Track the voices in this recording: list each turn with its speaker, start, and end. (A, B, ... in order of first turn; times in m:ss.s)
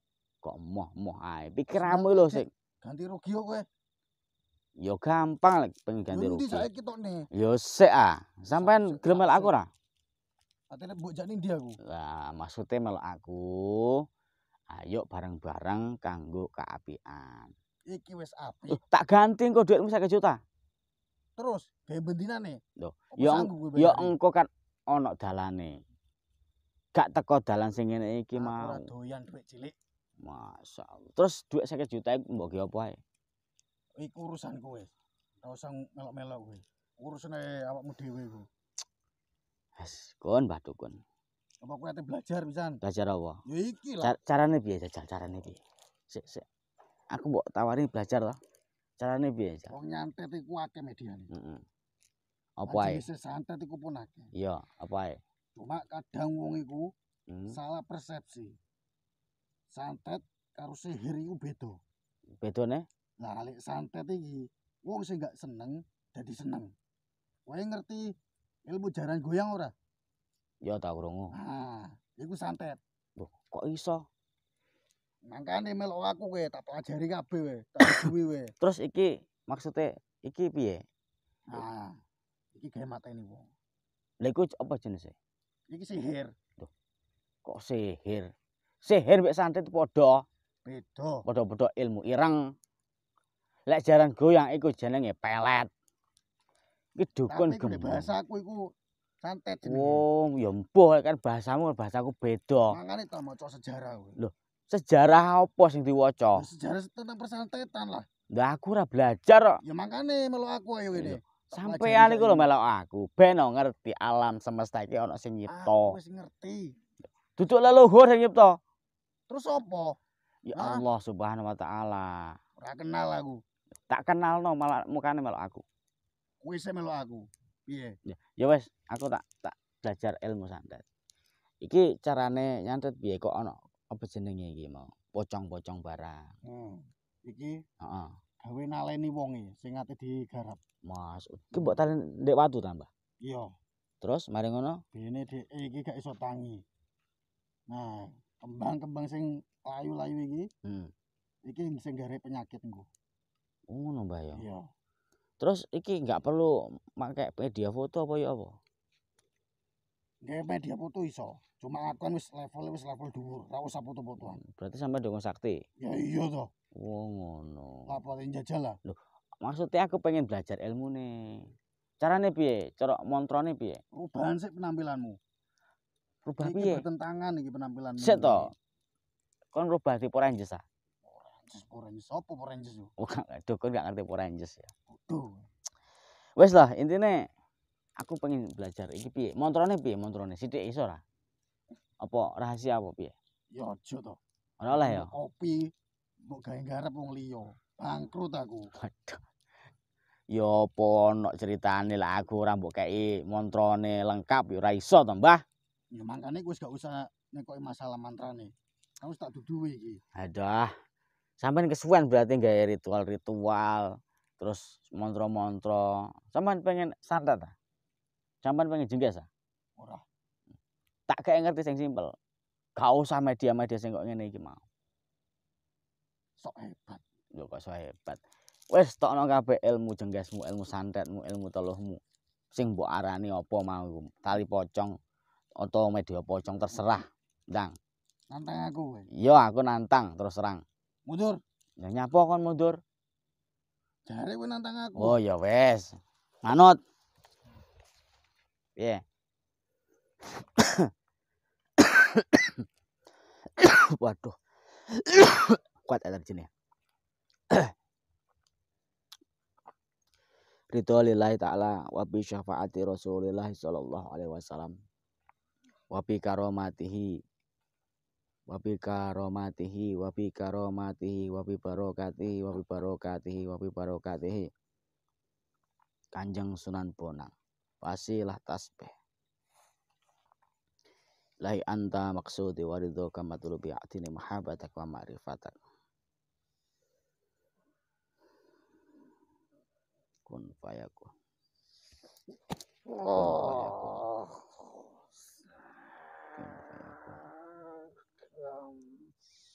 0:00.4-0:02.5 A
0:01.7-0:03.7 B
0:04.8-0:06.7 A
0:06.1-0:07.3 B
0:07.3-0:09.7 A
0:08.5-0:09.6 B
0:10.7-0:11.8 B
0:11.8-0:14.0 A
0:14.7-0:17.5 A
0:17.9-0:18.8 B
0:18.7-0:20.4 A
0:21.4-0:22.6 B
0:22.8-0:25.8 A
0:23.1-0:24.2 B
0:27.0-0:28.9 A
0:28.4-0:29.8 B
0:30.2-0:33.0 A
0:34.0-0:34.9 B
0:35.4-0:38.5 B
0:39.8-0:41.0 A
0:41.6-0:42.8 B
0:42.8-0:43.4 A
0:43.5-0:44.2 B
0:44.0-0:46.5 A
0:47.1-0:48.4 A
0:49.0-0:49.7 A
0:49.7-0:51.3 B
0:51.3-0:51.6 A
0:52.6-0:53.1 A
0:52.7-0:54.3 B
0:54.4-0:55.2 A
0:55.6-0:56.9 B
0:57.3-0:57.6 A
0:57.5-0:58.6 B
0:59.7-1:01.8 B
1:02.4-1:02.9 A
1:03.2-1:06.7 B
1:07.5-1:08.1 B
1:08.7-1:09.7 B
1:10.6-1:11.4 A
1:11.4-1:12.8 B
1:13.2-1:14.0 A
1:15.3-1:18.5 B
1:17.8-1:18.1 A
1:18.6-1:20.8 A
1:21.5-1:22.0 B
1:22.6-1:23.5 B
1:24.2-1:25.2 A
1:25.7-1:26.3 B
1:27.4-1:28.3 A
1:28.8-1:30.2 A
1:30.6-1:31.2 B
1:31.3-1:32.5 A
1:33.7-1:35.7 A
1:37.0-1:38.1 A
1:37.3-1:38.7 B
1:39.2-1:40.0 B
1:39.6-1:42.8 A
1:42.7-1:44.2 B
1:44.2-1:46.5 A
1:46.4-1:48.1 B
1:48.3-1:49.6 A
1:49.6-1:52.5 B
1:51.0-1:56.0 A
1:55.5-1:56.7 B
1:57.4-1:58.6 A
1:59.3-2:00.0 B
2:00.5-2:02.4 A
2:00.6-2:00.8 B
2:02.6-2:03.4 B
2:03.9-2:05.6 A
2:06.4-2:08.0 B
2:08.1-2:10.8 A
2:11.6-2:16.3 A
2:16.4-2:17.6 B
2:17.8-2:18.2 A
2:18.4-2:20.6 B
2:20.8-2:22.9 A
2:23.2-2:23.5 B
2:24.0-2:24.8 A
2:24.9-2:26.6 B
2:27.7-2:30.5 B
2:30.6-2:30.9 A
2:31.4-2:32.9 B
2:33.7-2:34.4 A
2:34.4-2:34.7 B
2:35.4-2:38.6 A
2:40.2-2:44.4 B
2:44.2-2:45.6 A
2:45.8-2:46.5 B
2:46.8-2:47.9 A
2:47.9-2:48.8 B
2:48.9-2:51.5 A
2:52.0-2:53.8 A
2:53.9-2:55.2 B
2:56.3-2:56.8 A
2:56.4-2:58.5 B
2:58.0-2:58.5 A
2:59.5-3:00.6 A
3:01.0-3:02.9 B
3:03.0-3:04.7 A
3:04.9-3:05.5 B
3:06.4-3:07.3 A
3:08.0-3:11.0 A
3:12.0-3:13.2 A
3:13.5-3:14.2 B
3:14.6-3:15.1 A
3:14.7-3:15.7 B
3:16.3-3:18.7 B
3:18.8-3:19.2 A
3:20.3-3:25.4 A
3:25.9-3:30.0 B
3:30.2-3:30.7 A
3:31.4-3:37.6 A
3:38.4-3:39.3 A
3:39.8-3:40.0 B
3:41.1-3:42.2 A
3:42.8-3:44.6 A
3:46.4-3:47.0 B
3:47.4-3:48.2 A
3:48.7-3:52.0 A
3:52.5-3:55.0 A
3:55.6-3:57.8 A
3:58.3-3:59.1 B
3:59.1-4:00.6 A
4:01.1-4:01.4 B
4:01.8-4:02.8 A
4:04.1-4:05.2 B
4:05.0-4:06.8 A
4:10.4-4:10.9 A
4:11.8-4:12.7 A
4:13.6-4:14.4 A
4:14.9-4:16.5 A
4:20.7-4:24.8 A
4:25.9-4:27.2 A
4:28.5-4:34.5 A
4:36.2-4:38.9 A
4:41.4-4:45.6 A
4:50.3-4:51.1 A
4:52.9-4:54.3 B
4:53.0-4:54.1 A
4:56.4-4:57.3 A
4:58.4-4:58.9 B